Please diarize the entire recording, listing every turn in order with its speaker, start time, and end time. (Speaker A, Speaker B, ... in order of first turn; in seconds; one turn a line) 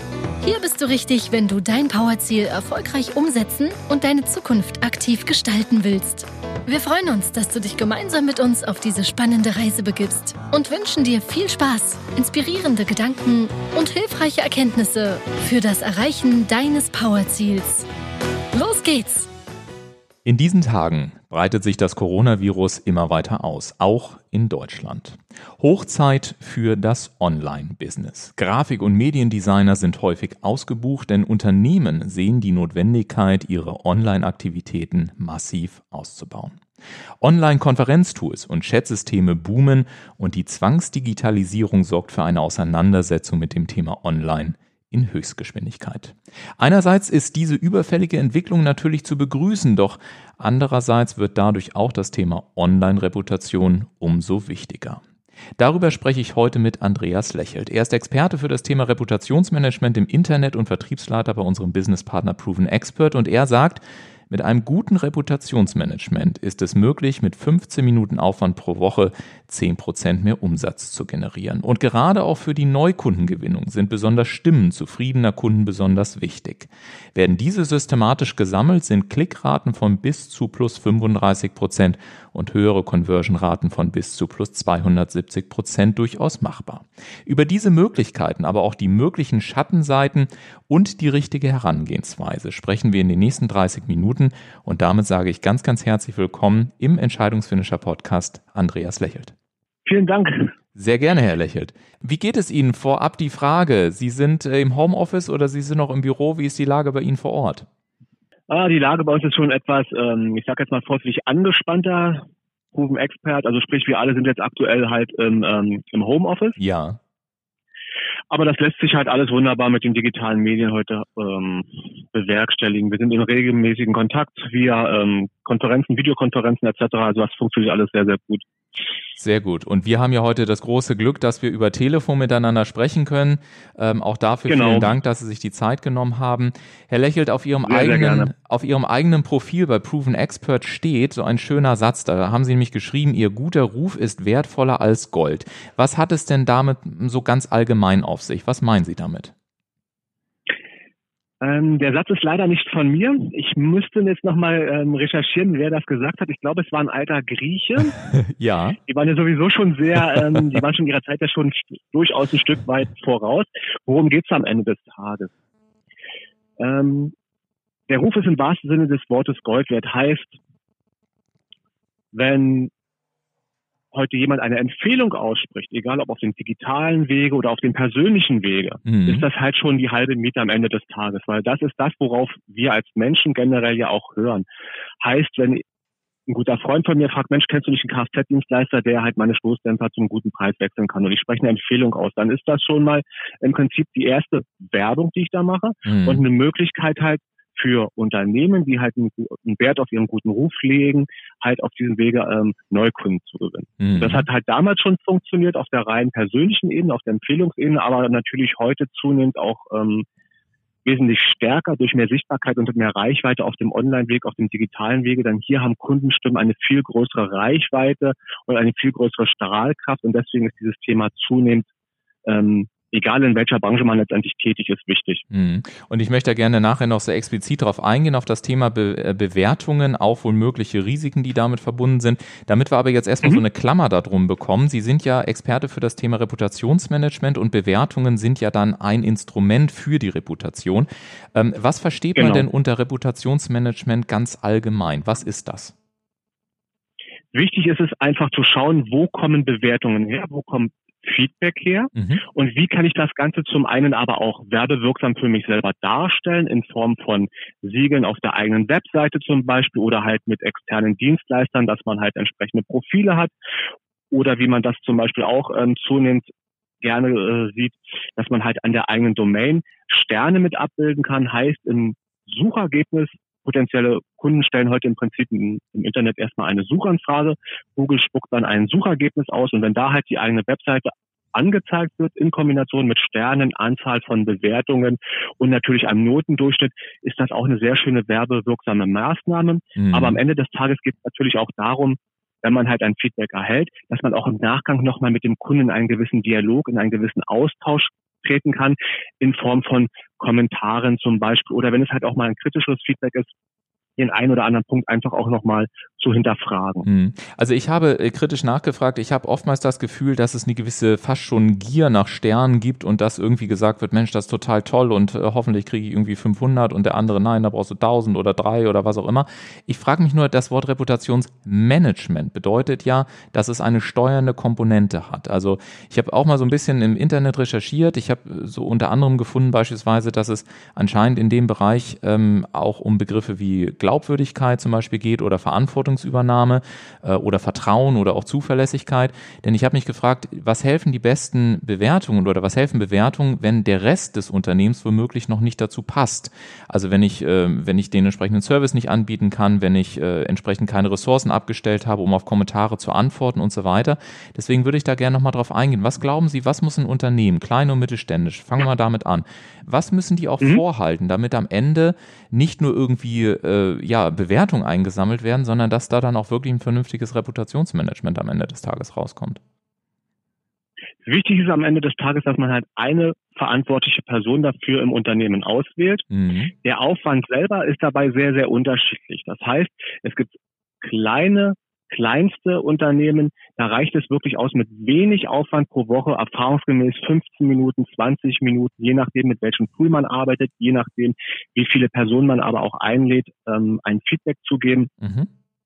Speaker A: 0.4-17.9
Speaker A: 18.5-19.3
Speaker B: 20.2-36.6
Speaker B: 37.2-55.0
Speaker B: 55.6-99.3
Speaker C: 99.8-100.5
Speaker B: 100.7-107.7
Speaker C: 108.5-116.6
Speaker B: 116.6-117.0
Speaker C: 118.3-128.4
Speaker B: 129.2-149.3
Speaker C: 134.5-134.9
Speaker C: 137.6-138.3
Speaker C: 151.4-157.9
Speaker B: 157.9-158.8
Speaker C: 158.9-165.3
Speaker C: 166.6-167.1
Speaker C: 167.9-170.4
Speaker C: 172.1-172.7
Speaker C: 173.9-184.4
Speaker B: 178.8-179.2
Speaker C: 185.0-185.6
Speaker C: 186.3-210.1
Speaker B: 195.8-196.2
Speaker B: 203.8-204.2
Speaker C: 210.8-221.7
Speaker C: 222.2-225.2
Speaker B: 225.3-245.7
Speaker C: 242.2-242.4
Speaker C: 247.3-263.3
Speaker C: 264.1-266.3
Speaker C: 266.8-303.3
Speaker B: 289.8-290.2
Speaker C: 304.0-306.9
Speaker B: 306.8-369.4
Speaker C: 371.0-376.1
Speaker B: 376.1-376.5
Speaker C: 376.6-394.9
Speaker B: 395.0-395.3